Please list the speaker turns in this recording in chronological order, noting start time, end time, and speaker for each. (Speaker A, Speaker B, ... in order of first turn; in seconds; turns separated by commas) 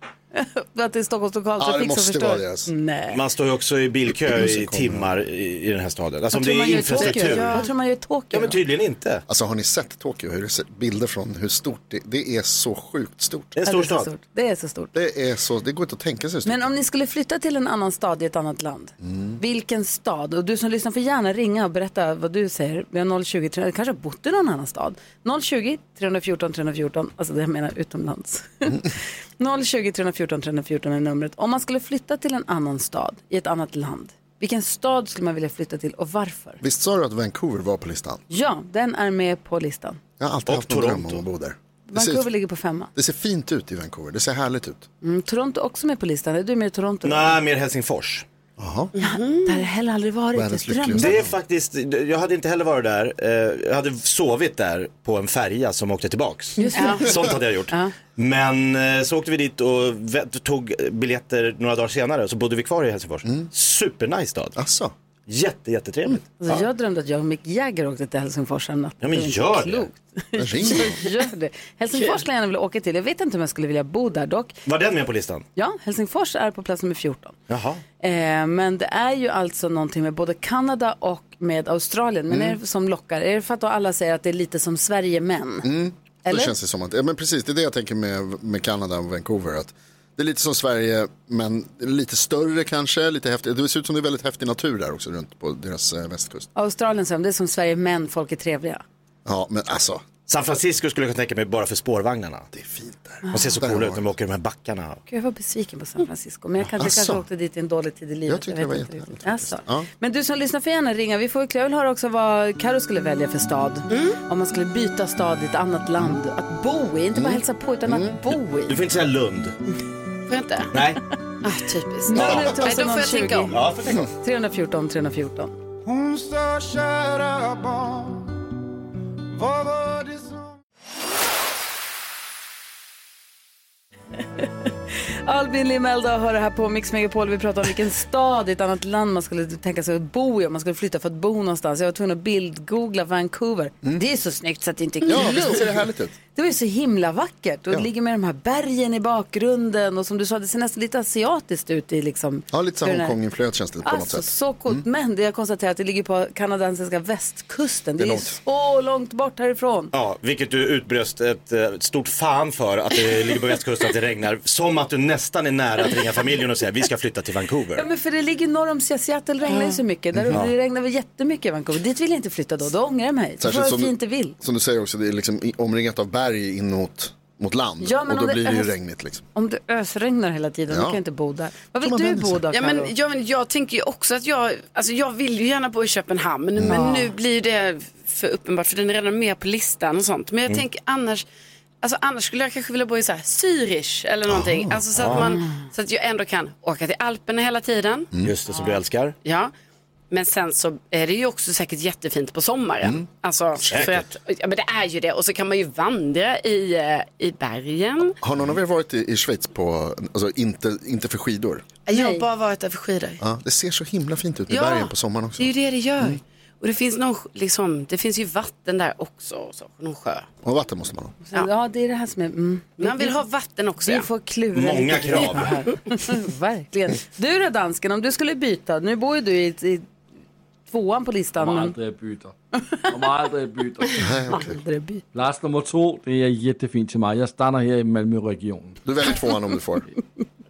Speaker A: 0.3-3.2, Speaker B: 1.6-2.7, Speaker C: 3.1-7.6, Speaker B: 4.2-5.1, Speaker A: 6.3-8.6, Speaker D: 6.9-7.7, Speaker C: 8.3-9.2, Speaker B: 9.3-13.5, Speaker C: 13.5-14.1, Speaker A: 13.6-14.9, Speaker B: 14.9-16.7, Speaker A: 16.4-36.6, Speaker B: 19.0-19.4, Speaker B: 36.6-38.2, Speaker A: 38.3-40.0, Speaker B: 40.2-42.3, Speaker C: 40.5-41.2, Speaker A: 41.9-42.9, Speaker B: 42.9-44.9, Speaker A: 45.0-47.4, Speaker C: 47.0-48.2, Speaker B: 48.6-48.9, Speaker D: 49.0-49.6, Speaker A: 49.0-51.2, Speaker B: 50.3-51.3, Speaker C: 51.0-64.5, Speaker A: 56.6-57.1, Speaker D: 56.7-57.1, Speaker B: 64.5-64.9, Speaker C: 65.3-66.6, Speaker A: 66.4-74.5, Speaker C: 69.0-69.9, Speaker B: 70.3-71.0, Speaker C: 74.7-75.5, Speaker A: 75.5-77.3, Speaker C: 77.5-77.8, Speaker A: 78.0-85.7, Speaker B: 82.3-82.6, Speaker B: 85.6-96.5, Speaker A: 86.2-86.5, Speaker A: 96.5-98.8, Speaker B: 99.2-100.0, Speaker C: 100.3-102.5, Speaker B: 102.5-104.0, Speaker C: 103.3-105.0, Speaker A: 105.1-118.8, Speaker B: 106.8-107.2, Speaker B: 108.3-109.9, Speaker D: 113.9-114.2, Speaker B: 117.1-118.2, Speaker C: 118.7-119.5, Speaker D: 120.3-120.8, Speaker C: 120.7-121.0, Speaker D: 121.4-123.6, Speaker A: 122.0-125.5, Speaker C: 122.1-122.6, Speaker C: 123.5-124.1, Speaker E: 125.8-128.4, Speaker E: 129.3-130.6, Speaker A: 135.2-145.7, Speaker B: 145.0-146.1, Speaker A: 146.3-153.1, Speaker B: 152.5-154.8, Speaker A: 153.8-159.9, Speaker B: 158.0-158.4, Speaker C: 159.9-167.8, Speaker A: 167.8-174.3, Speaker D: 169.5-169.8, Speaker B: 170.1-170.5, Speaker B: 173.4-179.2, Speaker A: 177.8-178.7, Speaker A: 179.3-182.9, Speaker B: 180.7-181.0, Speaker B: 181.8-182.4, Speaker D: 182.5-191.2, Speaker B: 186.5-186.8, Speaker A: 186.7-187.1, Speaker D: 191.8-198.1, Speaker B: 194.3-195.1, Speaker C: 194.9-195.3, Speaker A: 195.2-195.5, Speaker C: 198.2-199.2, Speaker D: 199.2-199.5, Speaker D: 200.1-208.2, Speaker C: 203.7-204.1, Speaker B: 208.2-211.6, Speaker D: 211.9-213.2, Speaker A: 211.9-212.2, Speaker B: 213.2-216.2, Speaker D: 214.5-220.3, Speaker B: 220.4-221.1, Speaker A: 221.2-223.2, Speaker D: 222.8-224.1, Speaker A: 223.8-229.8, Speaker C: 224.5-225.6, Speaker A: 230.7-231.7, Speaker F: 231.4-232.3, Speaker F: 232.9-234.1, Speaker B: 234.0-234.6, Speaker A: 234.3-235.0, Speaker F: 235.1-238.8, Speaker B: 238.8-239.8